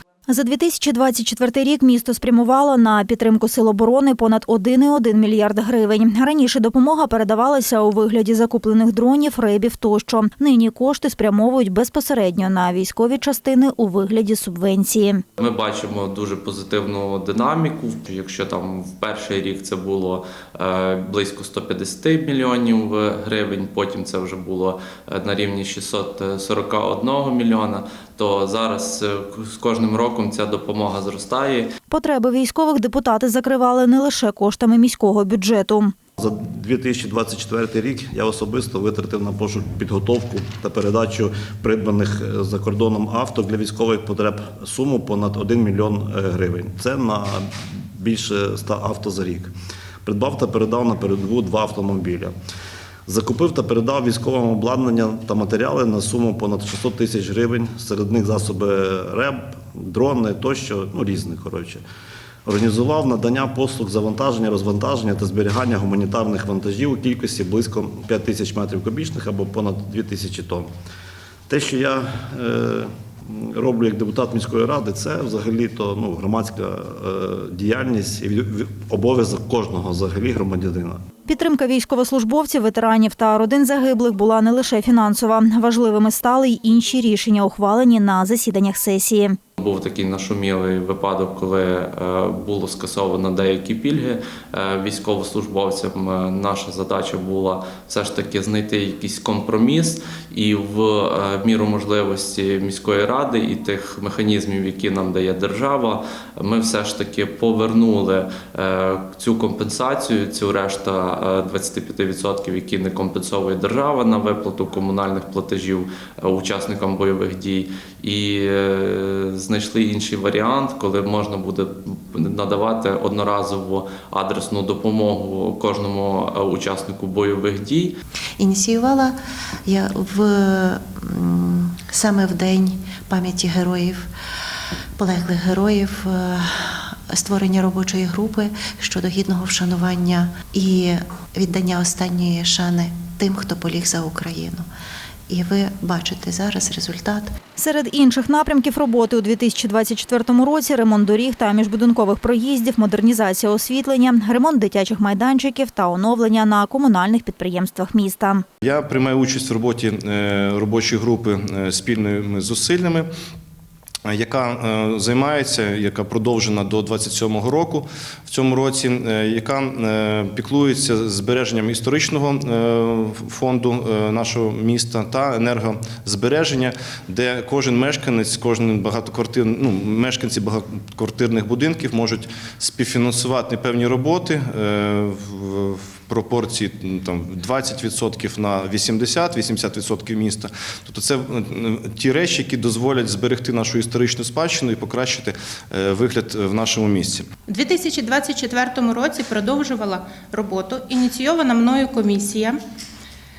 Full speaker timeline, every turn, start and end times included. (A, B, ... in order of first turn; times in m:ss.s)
0:00.3-0:15.2 A
0:15.4-0:31.7 B
0:31.9-0:35.9 A
0:36.2-0:49.5 C
0:50.0-0:52.3 C
0:53.1-1:01.8 C
1:02.4-1:10.7 C
1:11.5-1:21.0 C
1:21.2-1:29.4 A
1:29.6-2:08.0 B
2:08.4-2:09.1 D
2:09.7-2:14.1 D
2:15.0-2:24.7 D
2:25.3-2:27.3 D
2:27.6-2:38.4 A
2:38.6-2:43.1 E
2:44.0-3:17.3 E
3:17.5-3:22.6 F